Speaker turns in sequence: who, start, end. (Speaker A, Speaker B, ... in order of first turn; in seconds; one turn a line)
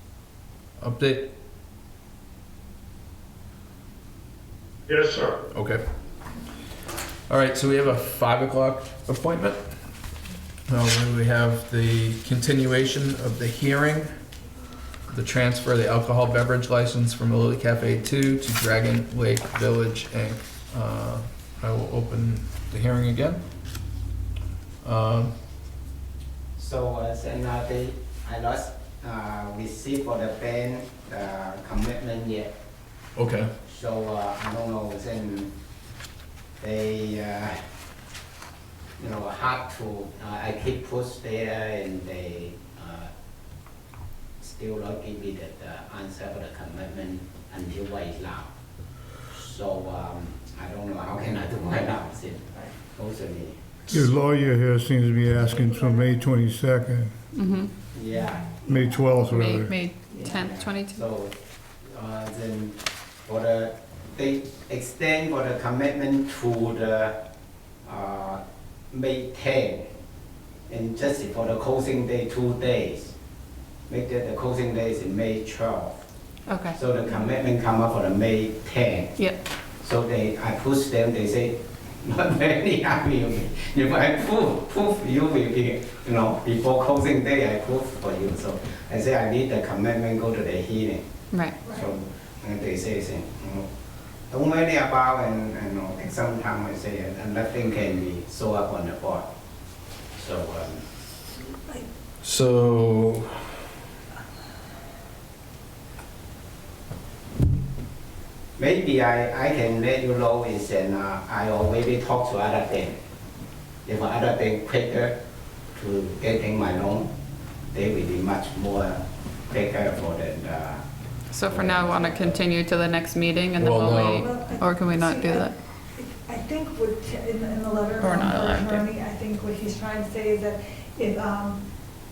Speaker A: 0.8-1.3
Speaker B: 4.9-5.4
Speaker A: 5.5-5.8
Speaker A: 7.3-9.6
Speaker A: 10.7-14.1
Speaker A: 15.1-23.4
Speaker A: 24.8-25.3
Speaker C: 26.6-32.5
Speaker A: 33.2-33.5
Speaker C: 33.6-35.5
Speaker C: 36.6-37.5
Speaker C: 39.0-43.1
Speaker C: 44.4-48.5
Speaker C: 49.3-53.9
Speaker B: 53.9-57.1
Speaker D: 55.5-56.1
Speaker E: 57.3-57.7
Speaker C: 57.9-58.8
Speaker B: 58.6-59.7
Speaker E: 59.2-61.0
Speaker C: 60.1-61.3
Speaker C: 61.9-67.2
Speaker C: 67.8-68.4
Speaker C: 68.9-69.8
Speaker C: 70.7-73.1
Speaker C: 73.9-76.0
Speaker E: 76.5-76.8
Speaker C: 76.7-79.1
Speaker C: 79.8-91.0
Speaker D: 91.6-91.9
Speaker C: 91.7-93.7
Speaker C: 94.3-99.2
Speaker C: 100.2-100.8
Speaker D: 101.3-101.9
Speaker A: 102.2-103.5
Speaker C: 108.6-113.0
Speaker C: 113.8-115.2
Speaker C: 115.7-117.1
Speaker C: 117.7-120.8
Speaker E: 121.3-125.6
Speaker C: 121.5-122.4
Speaker A: 123.6-124.3
Speaker D: 123.9-131.6
Speaker E: 128.0-128.9